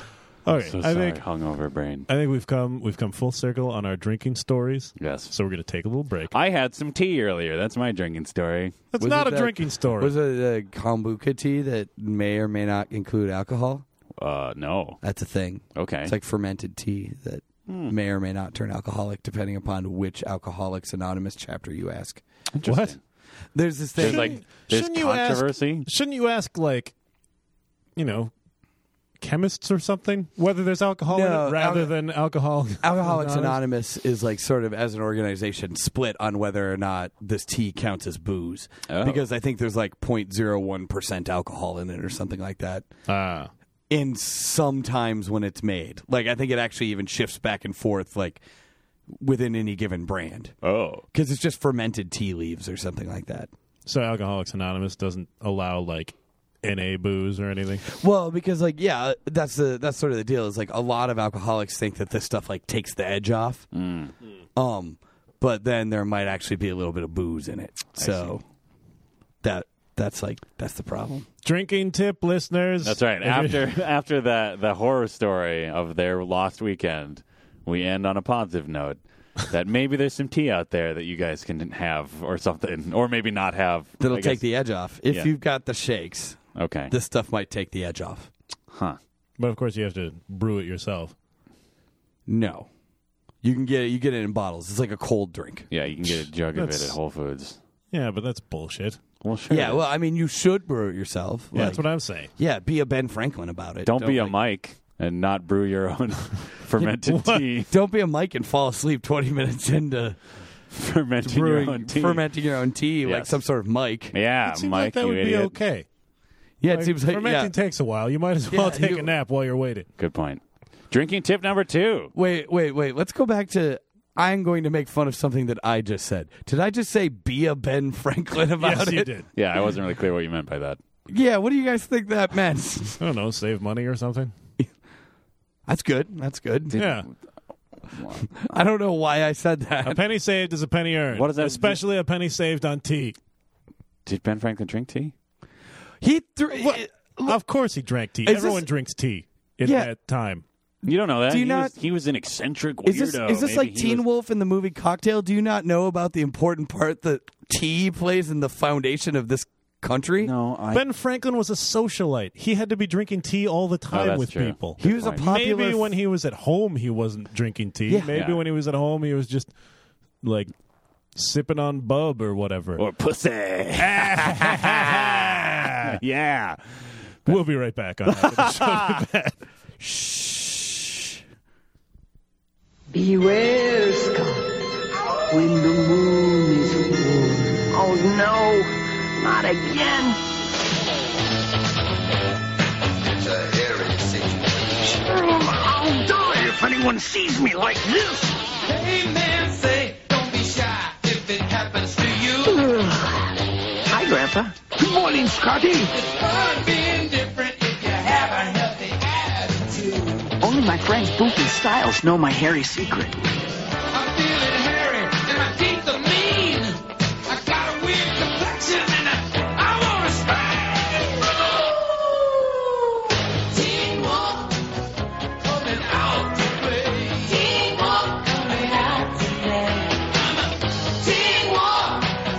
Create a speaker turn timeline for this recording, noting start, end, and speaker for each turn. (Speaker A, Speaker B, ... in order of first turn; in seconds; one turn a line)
Speaker A: 0.4-1.2
Speaker B: 0.5-2.1
Speaker A: 2.1-6.3
Speaker B: 5.0-5.3
Speaker B: 6.3-8.8
Speaker A: 8.9-10.2
Speaker C: 9.0-13.8
Speaker B: 14.2-15.0
Speaker C: 15.0-22.2
Speaker B: 15.7-16.1
Speaker B: 17.7-17.9
Speaker B: 22.5-23.0
Speaker A: 22.6-22.9
Speaker C: 23.5-24.4
Speaker B: 24.0-25.9
Speaker A: 24.0-26.9
Speaker A: 27.9-28.3
Speaker A: 29.2-33.6
Speaker C: 31.1-31.9
Speaker C: 32.8-42.9
Speaker B: 38.9-39.2
Speaker A: 43.1-43.5
Speaker C: 43.9-48.4
Speaker C: 49.2-50.5
Speaker B: 50.6-51.0
Speaker C: 51.1-53.5
Speaker A: 53.9-57.8
Speaker C: 57.8-63.7
Speaker B: 63.7-64.1
Speaker C: 64.5-68.4
Speaker B: 68.0-68.3
Speaker C: 69.4-71.2
Speaker A: 71.4-73.7
Speaker B: 72.8-84.5
Speaker C: 84.0-86.4
Speaker B: 86.5-86.9
Speaker C: 86.9-88.3
Speaker B: 88.7-89.0
Speaker A: 89.4-91.1
Speaker C: 92.3-92.7
Speaker C: 93.4-95.7
Speaker B: 95.7-97.6
Speaker A: 96.5-97.0
Speaker A: 97.9-99.0
Speaker B: 99.2-99.8
Speaker C: 99.5-104.3
Speaker A: 101.5-102.3
Speaker B: 103.8-107.7
Speaker A: 107.0-107.4
Speaker C: 107.6-110.2
Speaker B: 110.7-112.2
Speaker C: 111.2-114.1
Speaker B: 113.0-113.4
Speaker B: 114.1-115.5
Speaker A: 114.5-115.9
Speaker C: 116.6-117.5
Speaker A: 116.7-119.9
Speaker C: 118.5-119.1
Speaker B: 120.0-122.1
Speaker C: 122.1-129.1
Speaker A: 128.6-129.3
Speaker B: 129.3-130.8
Speaker C: 131.1-133.0
Speaker A: 133.0-134.3
Speaker C: 135.7-136.8
Speaker B: 136.7-137.1
Speaker A: 136.7-137.1
Speaker B: 137.9-138.2
Speaker C: 138.2-140.0
Speaker A: 139.8-143.2
Speaker B: 141.1-141.8
Speaker B: 144.1-145.1
Speaker C: 146.0-147.4
Speaker A: 146.5-150.4
Speaker C: 148.2-148.7
Speaker C: 149.6-149.9
Speaker B: 150.8-154.0
Speaker C: 151.3-151.7
Speaker C: 152.8-160.3
Speaker B: 160.2-160.8
Speaker A: 160.7-169.5
Speaker B: 163.9-165.3
Speaker C: 164.8-165.9
Speaker C: 167.9-168.1
Speaker B: 168.1-168.4
Speaker A: 170.2-170.5
Speaker A: 171.1-172.8
Speaker B: 172.8-177.4
Speaker A: 173.8-176.0
Speaker A: 177.2-179.4
Speaker B: 178.1-179.0
Speaker B: 179.8-180.7
Speaker D: 182.9-184.5
Speaker D: 185.3-190.2
Speaker E: 193.1-195.0
Speaker D: 194.9-198.3
Speaker E: 198.6-202.6
Speaker D: 202.4-205.9
Speaker E: 205.0-210.3
Speaker D: 210.4-213.3
Speaker E: 213.9-224.6
Speaker E: 225.4-227.4
Speaker D: 227.2-230.0
Speaker E: 230.1-232.1